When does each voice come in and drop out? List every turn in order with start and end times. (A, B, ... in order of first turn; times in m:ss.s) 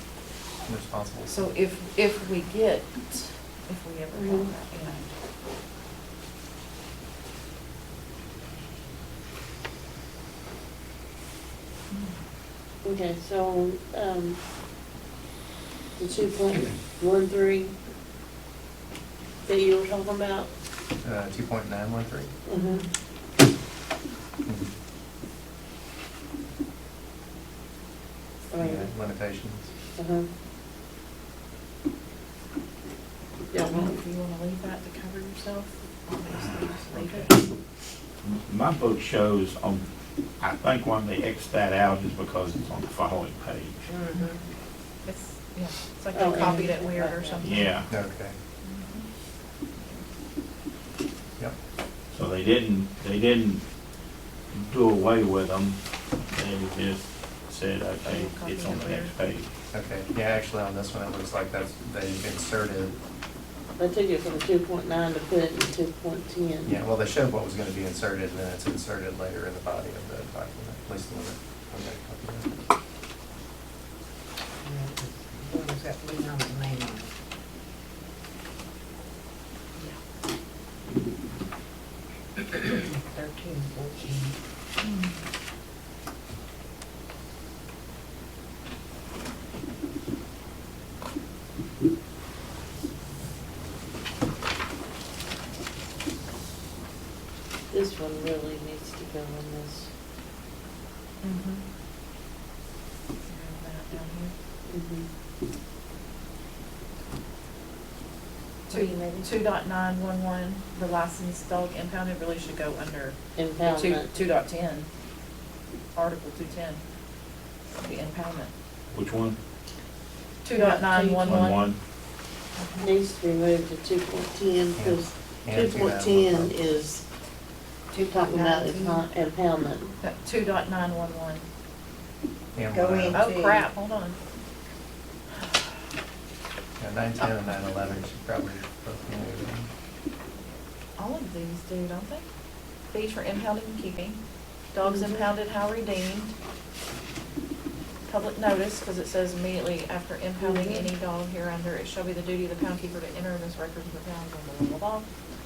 0:00.6-0:01.4 A
0:01.3-0:05.1 B
0:04.1-0:04.5 C
0:11.9-0:12.2 B
0:12.8-0:14.4 C
0:16.0-0:17.8 C
0:19.4-0:20.5 C
0:21.0-0:22.3 A
0:22.4-0:22.8 C
0:28.5-0:28.9 C
0:28.6-0:29.7 A
0:30.0-0:30.3 C
0:33.5-0:33.9 C
0:33.5-0:37.4 B
0:36.9-0:37.3 D
0:38.2-0:39.8 D
0:40.4-0:43.8 D
0:43.9-0:44.4 E
0:45.0-0:47.7 B
0:46.1-0:47.5 C
0:47.4-0:47.9 D
0:47.9-0:48.3 A
0:48.6-0:49.0 B
0:49.8-0:50.0 B
0:52.1-0:53.6 D
0:54.5-0:55.8 D
0:56.3-0:59.5 D
0:58.0-0:59.1 B
0:59.7-1:03.0 A
1:03.8-1:06.7 C
1:06.6-1:12.5 A
1:14.6-1:17.1 E
1:22.4-1:24.4 E
1:24.8-1:25.1 B
1:37.7-1:39.9 C
1:41.2-1:41.6 B
1:43.3-1:44.3 B
1:44.7-1:45.1 C
1:48.7-1:49.3 E
1:48.7-1:54.9 B
1:53.4-1:54.2 C
1:55.9-1:56.8 B
1:57.8-1:58.5 B
1:58.9-1:59.4 D
2:00.4-2:01.6 B
2:00.5-2:01.4 E
2:01.2-2:01.8 D
2:02.6-2:02.8 B
2:02.8-2:07.0 C
2:04.8-2:06.5 A
2:07.9-2:09.0 E
2:08.1-2:09.9 C
2:10.0-2:11.4 B
2:12.5-2:13.2 A
2:12.7-2:13.6 E
2:13.1-2:14.2 B
2:16.8-2:19.7 A
2:21.0-2:22.2 B
2:22.9-2:24.2 B
2:24.7-2:26.3 B
2:24.8-2:25.3 C
2:28.1-2:35.1 B
2:30.4-2:30.9 C